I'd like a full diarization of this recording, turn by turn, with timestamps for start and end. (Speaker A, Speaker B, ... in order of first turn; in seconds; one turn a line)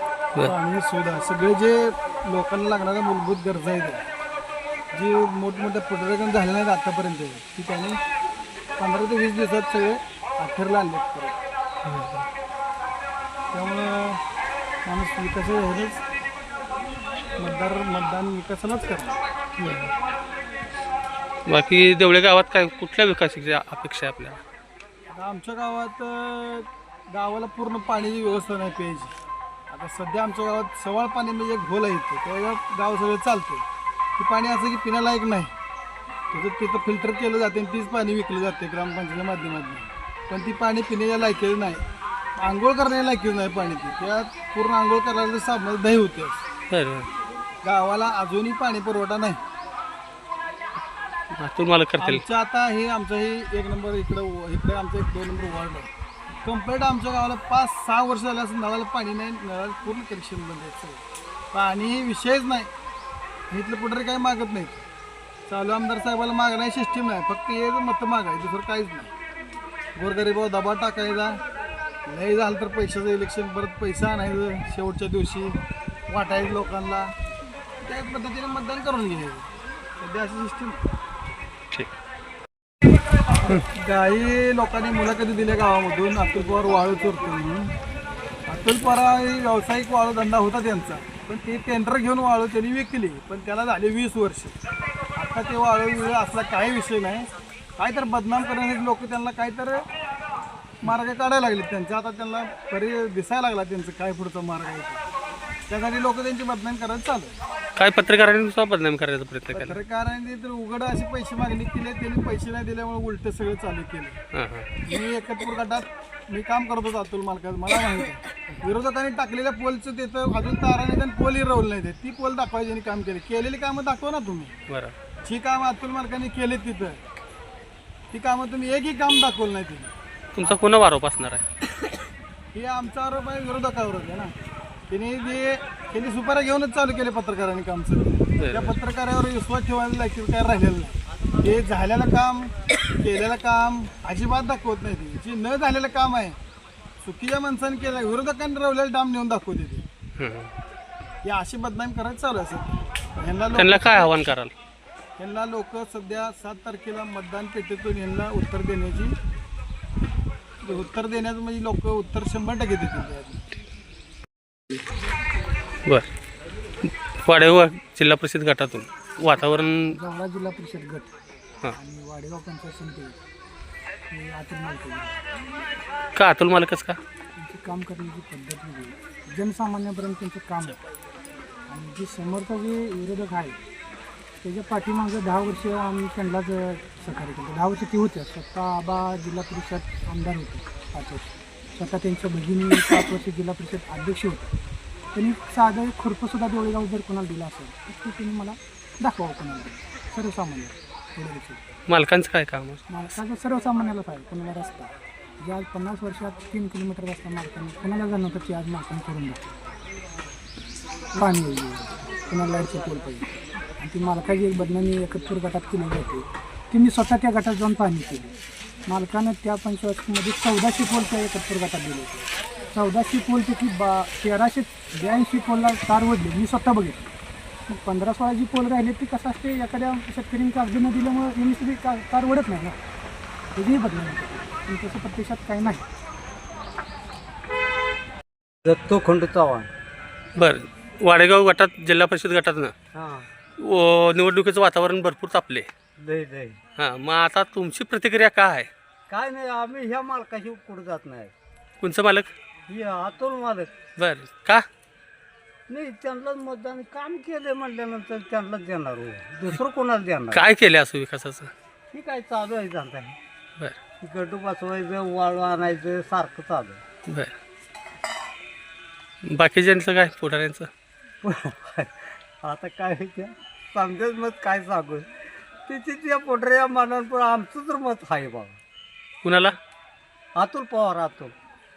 Speaker A: 0.4-4.0
Speaker A: 4.9-8.0
Speaker A: 8.8-11.4
Speaker B: 11.8-12.3
Speaker A: 13.5-14.2
Speaker A: 14.8-16.0
Speaker A: 17.4-19.2
Speaker B: 19.6-19.9
Speaker B: 21.5-24.4
Speaker A: 25.1-29.1
Speaker A: 29.7-33.6
Speaker A: 34.2-35.5
Speaker A: 36.3-41.8
Speaker A: 42.4-46.4
Speaker B: 46.7-47.1
Speaker A: 47.6-49.4
Speaker B: 51.4-52.2
Speaker A: 52.0-55.9
Speaker A: 56.4-61.0
Speaker A: 61.5-62.7
Speaker A: 63.5-64.8
Speaker A: 65.5-69.1
Speaker A: 70.0-71.4
Speaker A: 72.1-75.6
Speaker A: 76.1-77.1
Speaker A: 77.8-79.5
Speaker A: 80.0-80.8
Speaker A: 83.7-87.7
Speaker A: 88.5-94.5
Speaker A: 95.2-97.3
Speaker A: 97.8-99.8
Speaker A: 100.8-105.0
Speaker A: 105.7-107.3
Speaker B: 107.8-109.8
Speaker A: 109.5-114.2
Speaker B: 114.3-114.7
Speaker A: 114.9-124.5
Speaker A: 125.2-127.0
Speaker A: 128.1-130.6
Speaker B: 130.3-131.4
Speaker A: 132.5-134.3
Speaker A: 134.9-146.4
Speaker B: 138.4-138.8
Speaker A: 147.0-149.8
Speaker B: 150.2-150.5
Speaker A: 151.2-152.7
Speaker A: 153.2-154.3
Speaker B: 153.6-154.5
Speaker A: 155.2-159.1
Speaker A: 160.6-163.4
Speaker B: 166.8-169.9
Speaker C: 169.9-171.1
Speaker C: 171.7-173.2
Speaker C: 174.1-175.2
Speaker B: 176.2-177.0
Speaker C: 177.4-180.8
Speaker C: 181.7-183.6
Speaker C: 184.4-194.5
Speaker C: 195.1-201.6
Speaker B: 201.9-202.8
Speaker C: 202.9-209.5
Speaker C: 211.2-218.3
Speaker C: 218.9-227.1
Speaker C: 227.7-232.8
Speaker C: 233.5-235.8
Speaker D: 238.7-239.7
Speaker B: 240.4-242.7
Speaker D: 242.9-243.3
Speaker B: 243.6-245.7
Speaker D: 246.0-246.6
Speaker B: 246.8-248.7
Speaker D: 249.1-251.3
Speaker B: 251.8-252.3
Speaker D: 252.7-253.7
Speaker B: 254.0-254.7
Speaker D: 255.7-260.5
Speaker B: 260.3-261.5
Speaker D: 261.9-263.2
Speaker D: 264.0-266.8
Speaker B: 267.1-267.3
Speaker B: 269.2-270.7
Speaker D: 271.2-275.1
Speaker D: 275.6-278.6
Speaker B: 279.2-279.6
Speaker D: 280.4-281.3